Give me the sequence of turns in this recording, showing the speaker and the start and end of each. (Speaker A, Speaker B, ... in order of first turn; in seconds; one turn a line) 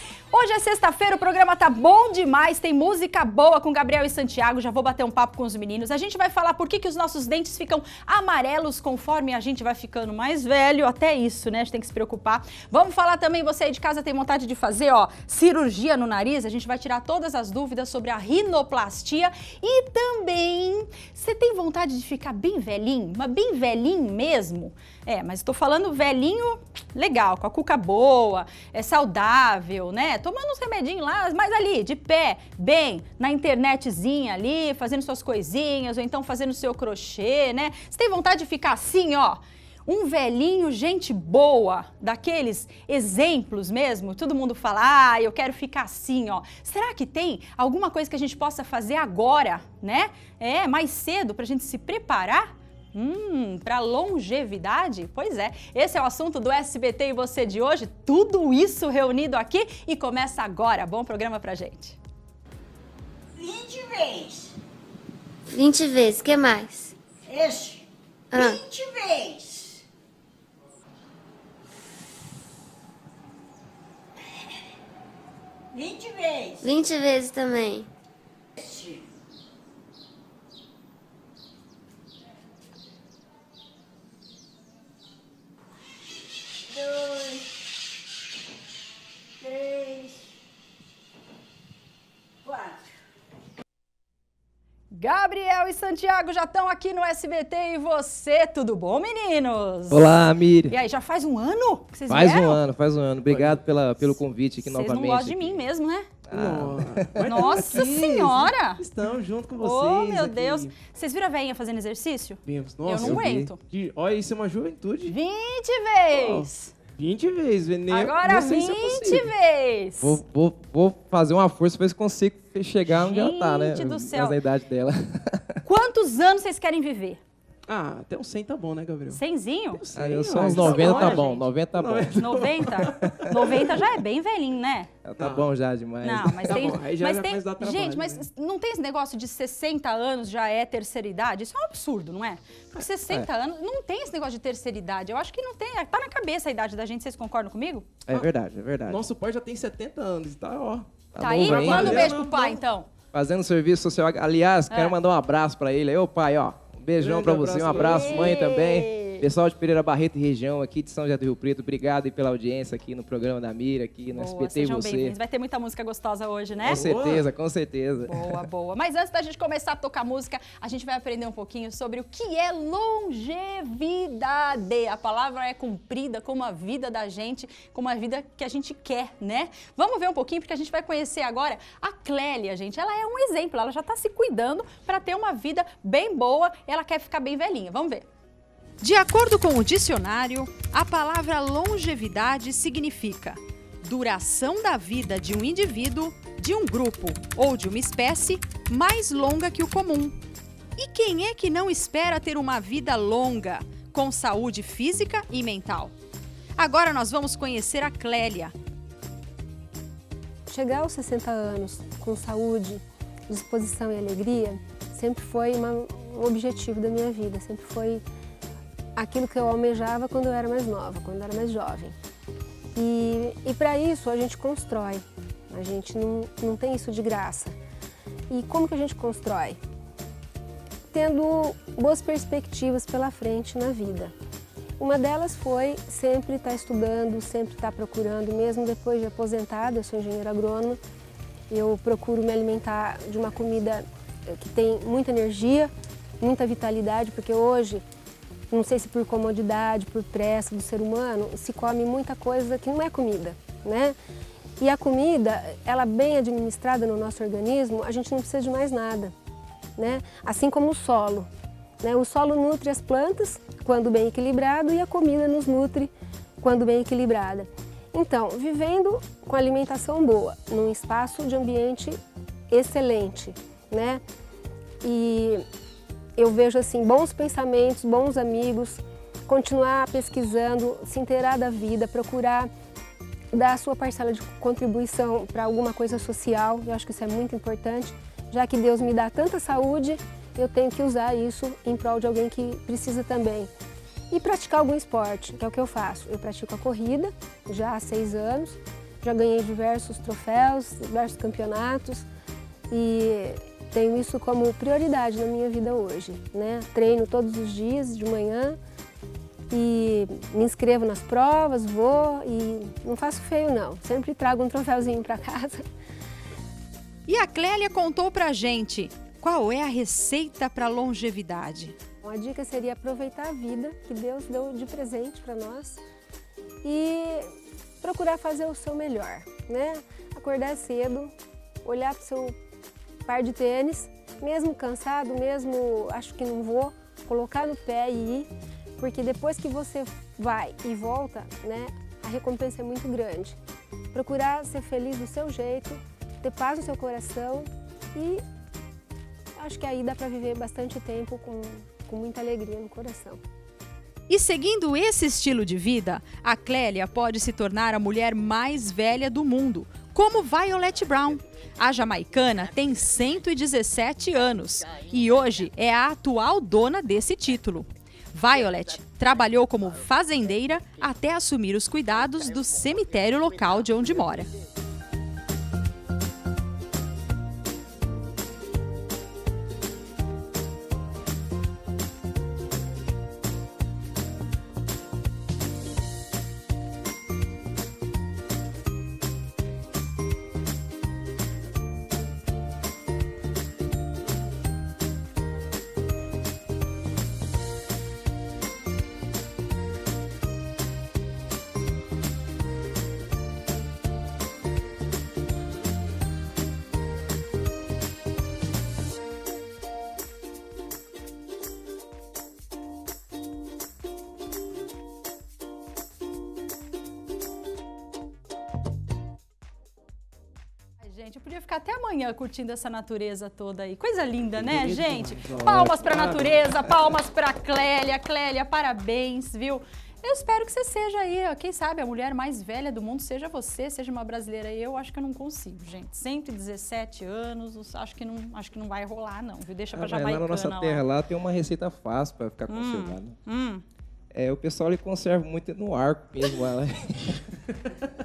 Speaker A: 0.3-62.0
Speaker B: 63.4-64.5
Speaker C: 65.5-66.9
Speaker B: 67.3-69.8
Speaker C: 68.3-68.6
Speaker B: 75.7-76.7
Speaker C: 76.6-77.9
Speaker B: 78.5-79.1
Speaker B: 86.7-87.6
Speaker B: 89.4-90.3
Speaker B: 92.4-92.9
Speaker A: 94.9-100.2
Speaker D: 99.9-100.7
Speaker A: 100.7-102.6
Speaker D: 102.1-105.6
Speaker E: 103.3-103.6
Speaker A: 104.6-106.1
Speaker D: 106.3-107.8
Speaker E: 106.3-110.7
Speaker A: 107.2-108.8
Speaker A: 109.6-113.6
Speaker E: 112.5-115.1
Speaker D: 113.0-113.5
Speaker A: 115.1-116.7
Speaker E: 116.1-119.3
Speaker A: 117.9-120.2
Speaker D: 120.0-125.6
Speaker A: 122.9-124.4
Speaker A: 125.6-127.2
Speaker E: 127.7-129.2
Speaker A: 129.1-129.8
Speaker E: 129.8-133.5
Speaker D: 129.9-132.3
Speaker A: 130.5-131.4
Speaker A: 132.1-134.9
Speaker D: 135.0-136.8
Speaker E: 135.2-135.5
Speaker A: 136.0-147.9
Speaker E: 136.4-138.2
Speaker D: 148.1-149.0
Speaker E: 148.1-152.6
Speaker D: 151.1-152.2
Speaker A: 151.2-152.9
Speaker D: 153.1-165.2
Speaker A: 154.7-154.9
Speaker E: 157.0-158.5
Speaker A: 158.0-159.2
Speaker A: 164.1-166.8
Speaker D: 166.6-168.4
Speaker E: 166.7-167.3
Speaker A: 168.1-188.1
Speaker A: 188.8-200.2
Speaker A: 200.8-205.9
Speaker A: 206.6-208.5
Speaker F: 210.5-218.0
Speaker F: 218.9-221.9
Speaker F: 222.7-227.5
Speaker F: 228.3-229.6
Speaker F: 230.9-234.1
Speaker F: 234.8-240.8
Speaker F: 241.5-247.8
Speaker F: 248.5-253.9
Speaker F: 254.6-259.1
Speaker F: 259.8-261.3
Speaker F: 261.8-272.0
Speaker F: 272.5-274.0
Speaker F: 274.8-275.4
Speaker F: 276.2-282.5
Speaker F: 283.3-293.5
Speaker F: 294.1-302.1
Speaker F: 302.7-308.6
Speaker F: 309.5-315.6
Speaker A: 317.1-321.8
Speaker F: 322.0-325.8
Speaker F: 326.6-331.1
Speaker F: 331.6-332.4
Speaker F: 333.1-343.4
Speaker F: 343.9-348.2
Speaker F: 349.4-353.2
Speaker A: 354.1-374.3
Speaker A: 420.8-440.8
Speaker E: 424.4-426.4
Speaker D: 439.7-443.1
Speaker A: 442.5-443.6
Speaker D: 444.1-447.2